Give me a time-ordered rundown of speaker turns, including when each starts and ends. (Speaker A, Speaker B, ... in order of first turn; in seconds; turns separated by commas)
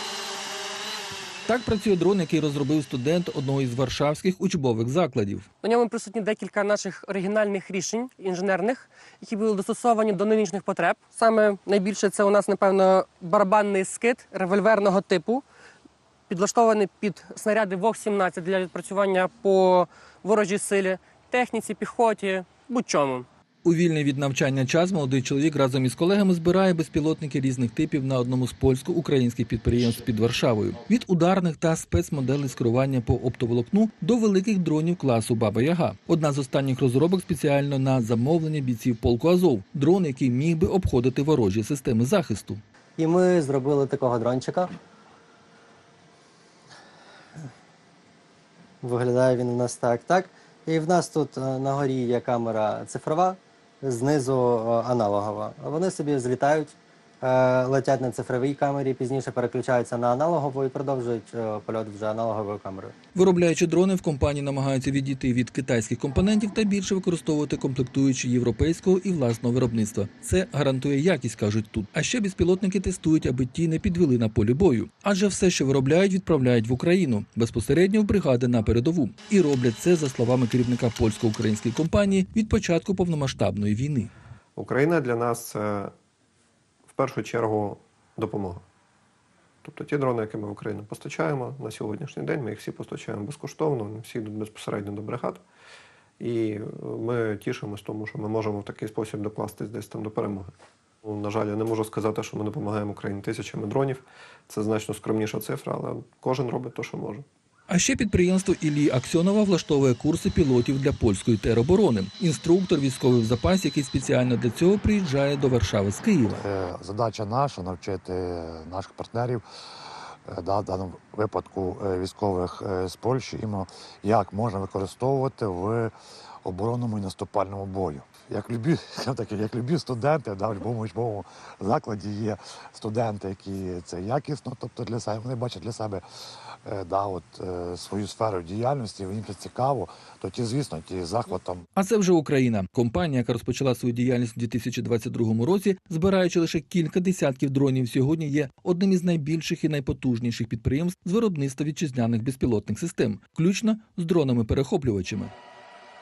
Speaker A: 1.5-5.5, Speaker B: 5.6-15.4, Speaker B: 16.3-23.2, Speaker A: 23.6-42.6, Speaker C: 43.0-44.7, Speaker C: 48.8-62.9, Speaker A: 63.1-84.1, Speaker D: 84.5-85.9, Speaker D: 86.9-88.6, Speaker D: 89.6-95.4, Speaker D: 96.2-100.5, Speaker D: 101.0-107.2, Speaker A: 107.7-116.4, Speaker E: 116.3-119.4, Speaker E: 120.2-125.9, Speaker E: 126.4-136.0, Speaker E: 136.6-141.6, Speaker A: 141.8-155.3